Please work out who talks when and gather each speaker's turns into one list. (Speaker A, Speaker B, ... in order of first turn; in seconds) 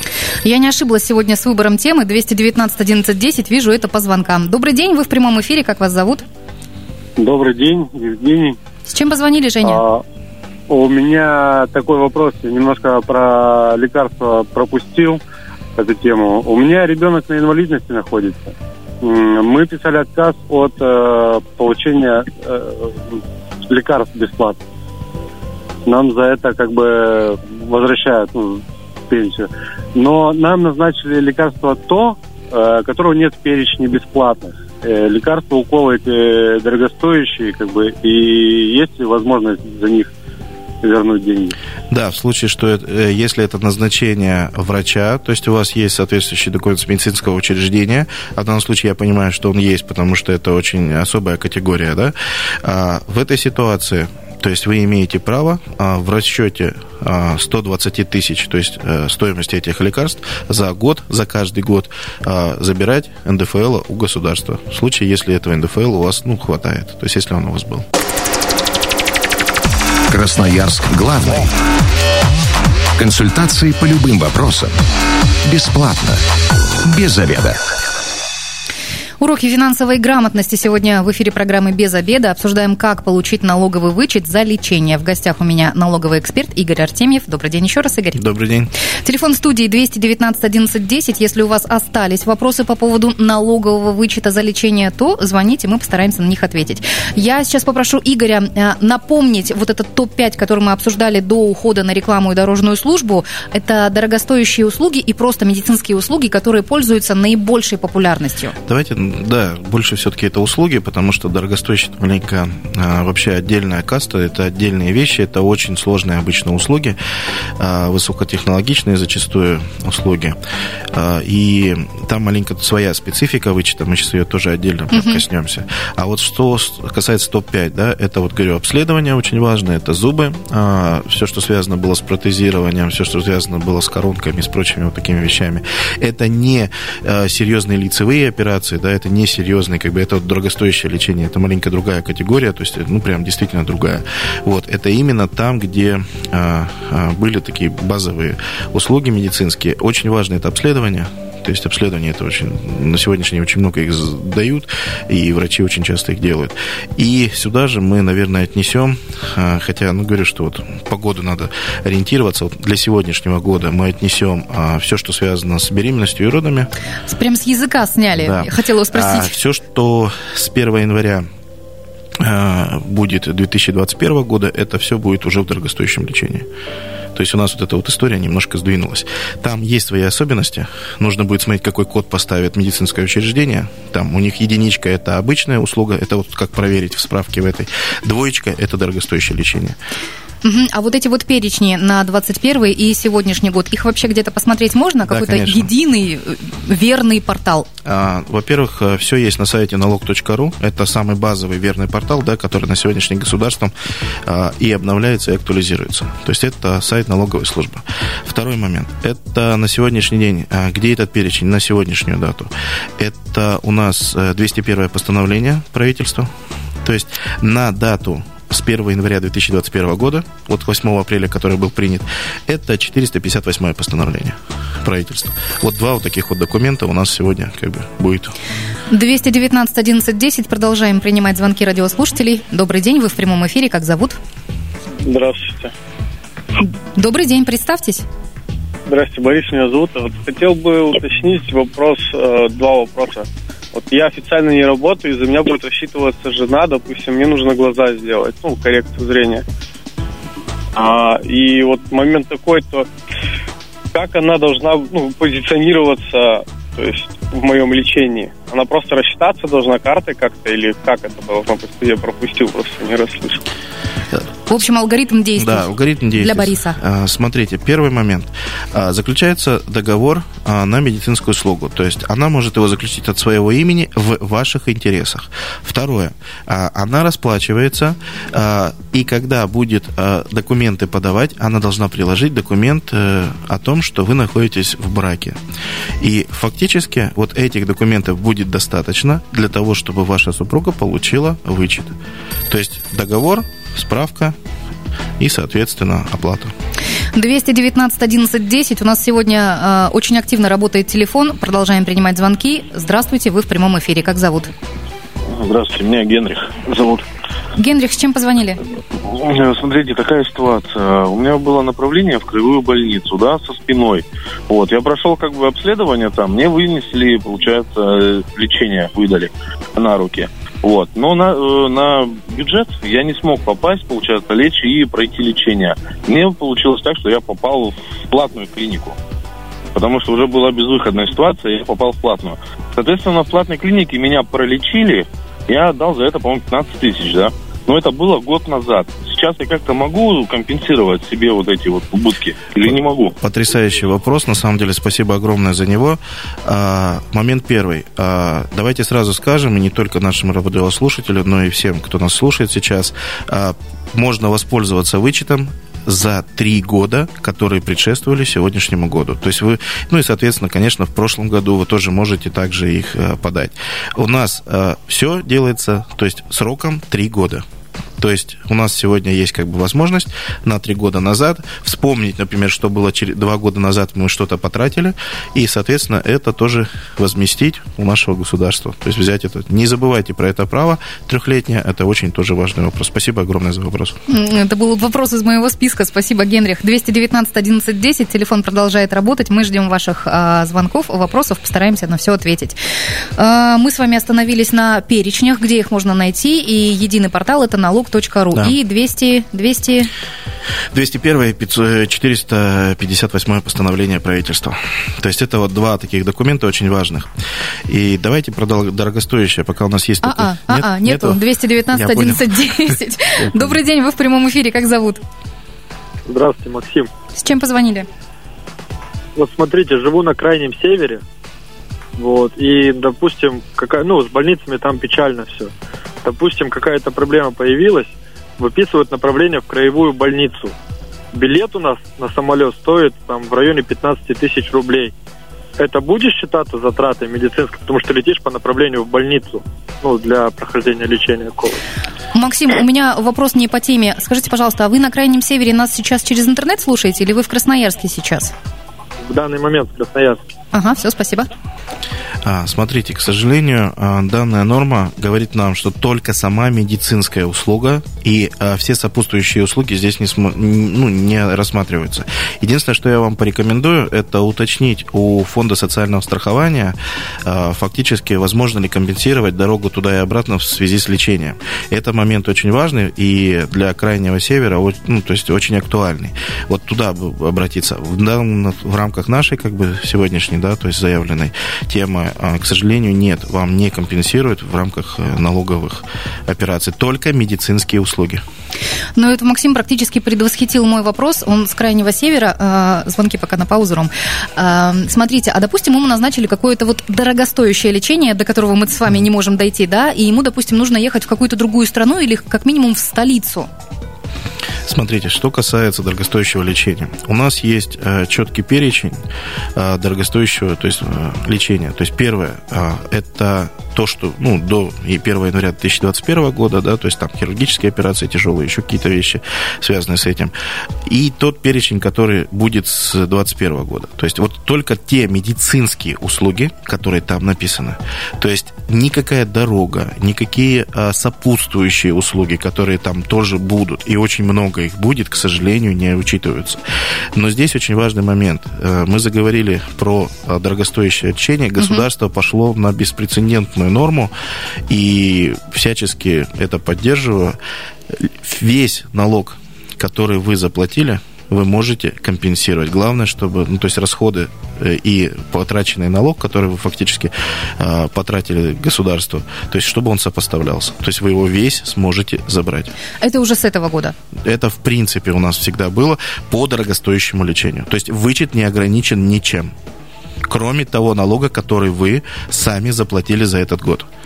Speaker A: 0.4-6.2, 8.9-9.8, 79.2-88.2, 89.0-108.5, 124.9-125.2, 167.1-169.3, 190.4-197.7, 228.9-234.2, 236.9-238.1, 264.5-266.8, 297.1-304.5, 307.6-308.6, 384.1-392.6, 393.2-399.9, 410.0-415.0, 417.1-417.9, 442.1-448.3, 450.5-451.3, 488.9-503.5, 563.0-563.9
Speaker B: 7.2-8.6, 9.6-10.0, 10.7-15.2, 15.8-23.2, 23.7-24.6, 25.9-40.1, 40.8-41.5
Speaker C: 41.9-67.8, 88.1-88.7, 108.6-117.0, 117.6-120.4, 120.9-166.7, 168.2-171.3, 172.2-176.5, 177.1-189.8, 195.1-195.7, 197.8-203.7, 204.2-216.3, 216.8-228.3, 265.4-285.4, 286.0-291.9, 292.5-294.4, 295.2-296.5, 343.2-367.4, 368.0-384.0, 400.7-407.1, 407.7-412.3, 413.2-413.5, 452.2-488.2, 504.6-509.0, 509.5-520.3, 520.8-536.6, 537.1-544.1, 544.7-547.4, 547.9-562.7, 564.2-569.5, 570.2-573.9
Speaker D: 70.1-71.5, 73.0-74.8, 75.4-76.2, 76.8-77.6
Speaker E: 235.0-235.7, 238.8-249.4, 250.8-252.9, 253.9-263.4
Speaker F: 305.3-307.0, 309.0-328.9, 329.7-343.1
Speaker G: 416.1-416.9, 419.1-421.0, 421.9-425.5, 426.0-430.5, 431.1-434.9, 435.6-441.6, 449.1-450.2